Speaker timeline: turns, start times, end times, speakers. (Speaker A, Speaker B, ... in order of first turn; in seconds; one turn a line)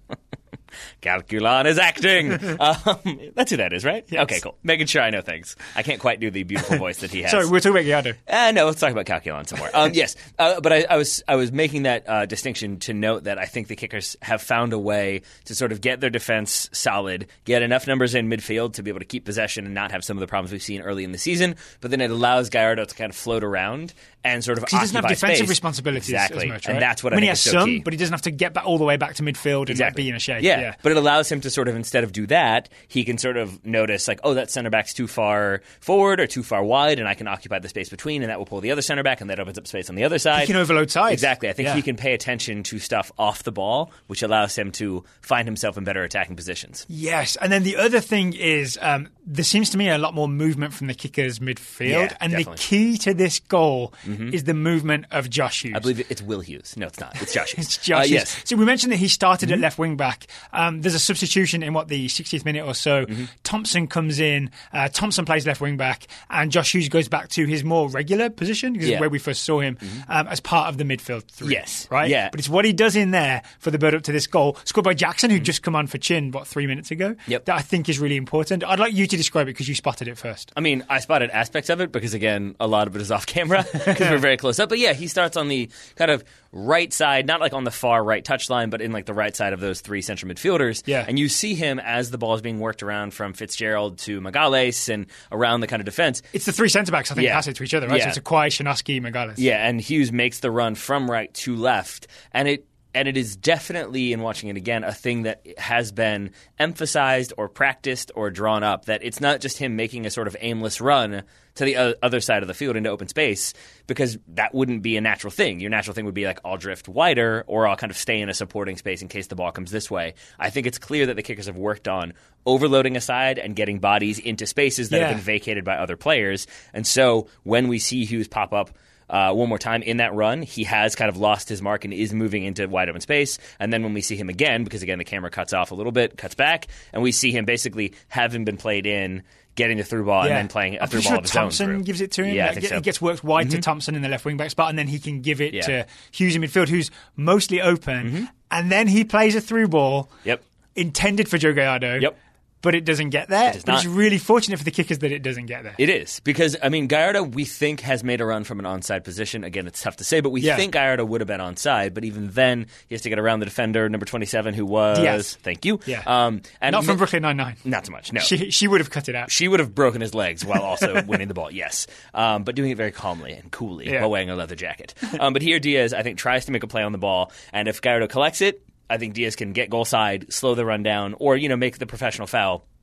Speaker A: 1.0-7.5
Speaker B: 7.3-8.2
Speaker A: 8.3-27.9
Speaker B: 24.6-30.8
Speaker A: 29.7-46.9
Speaker B: 40.3-41.8
Speaker B: 46.9-55.9
Speaker A: 51.9-52.6
Speaker A: 54.0-54.4
Speaker A: 55.7-58.4
Speaker B: 57.3-80.5
Speaker A: 71.4-72.3
Speaker A: 80.5-96.3
Speaker B: 96.3-99.4
Speaker A: 97.2-98.2
Speaker A: 99.4-142.8
Speaker B: 124.9-125.2
Speaker B: 140.2-150.1
Speaker A: 143.4-143.6
Speaker A: 148.0-148.3
Speaker B: 150.8-155.8
Speaker A: 153.5-153.9
Speaker A: 155.8-167.0
Speaker B: 160.4-160.7
Speaker B: 164.9-165.3
Speaker B: 166.7-167.6
Speaker A: 167.6-168.3
Speaker B: 168.2-169.3
Speaker A: 169.3-182.6
Speaker B: 173.8-174.1